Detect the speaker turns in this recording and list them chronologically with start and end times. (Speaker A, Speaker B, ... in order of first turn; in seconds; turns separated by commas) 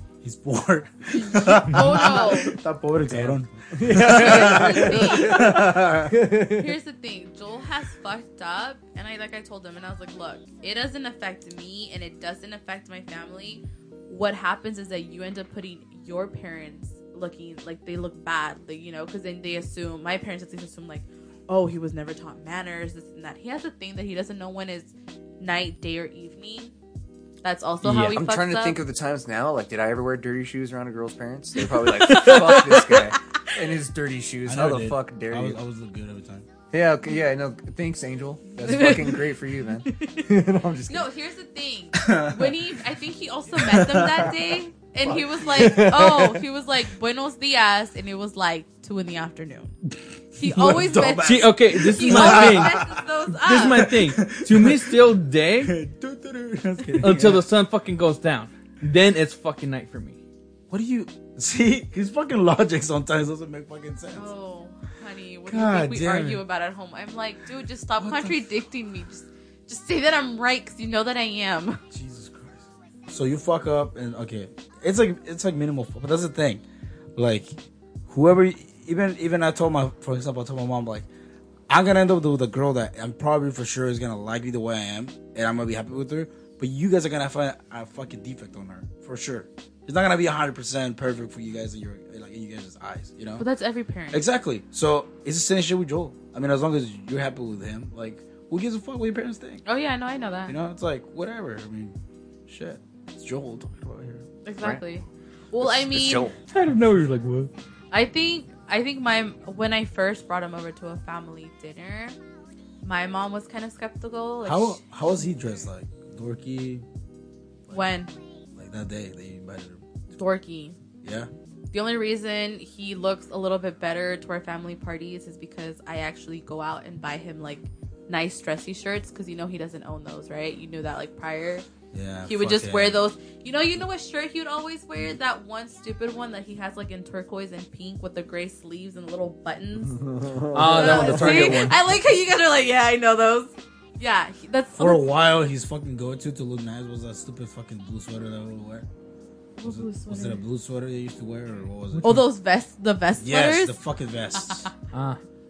Speaker A: 0.2-6.2, Speaker B: 1.1-2.5, Speaker C: 3.1-3.4, Speaker D: 3.7-6.5, Speaker B: 4.0-5.7, Speaker B: 6.3-26.7, Speaker B: 27.4-28.8, Speaker C: 27.8-28.2, Speaker D: 28.0-35.6, Speaker B: 31.6-33.4, Speaker C: 32.1-32.6, Speaker A: 34.5-36.5, Speaker D: 36.7-41.1, Speaker B: 38.6-39.2, Speaker B: 39.9-40.2, Speaker B: 40.9-49.7, Speaker A: 42.0-42.6, Speaker A: 43.6-44.3, Speaker A: 45.3-45.6, Speaker D: 45.5-46.4, Speaker B: 50.4-53.9, Speaker A: 50.4-53.0, Speaker C: 51.2-55.7, Speaker A: 53.6-55.1, Speaker A: 55.6-57.4, Speaker C: 57.0-60.2, Speaker A: 60.7-64.3, Speaker B: 64.1-71.8, Speaker A: 65.5-66.4, Speaker A: 68.0-68.4, Speaker A: 71.9-76.6, Speaker A: 77.2-77.5, Speaker A: 78.1-81.1, Speaker A: 81.7-93.5, Speaker B: 93.4-94.2, Speaker A: 94.1-99.6, Speaker B: 99.7-100.5, Speaker A: 100.5-101.9, Speaker A: 102.5-104.2, Speaker B: 104.4-106.3, Speaker D: 105.6-106.3, Speaker C: 106.5-107.5, Speaker B: 107.9-112.1, Speaker B: 112.8-114.8, Speaker A: 114.4-116.8, Speaker B: 117.7-118.1, Speaker A: 118.5-119.8, Speaker B: 120.1-120.8, Speaker A: 121.0-121.3, Speaker B: 121.7-131.7, Speaker A: 131.9-133.0, Speaker B: 132.2-145.1, Speaker D: 140.0-141.6, Speaker C: 140.5-141.8, Speaker A: 144.8-148.8, Speaker B: 149.6-150.4, Speaker A: 149.6-152.1, Speaker B: 152.0-153.8, Speaker A: 153.2-154.7, Speaker B: 154.3-154.7, Speaker C: 154.9-155.2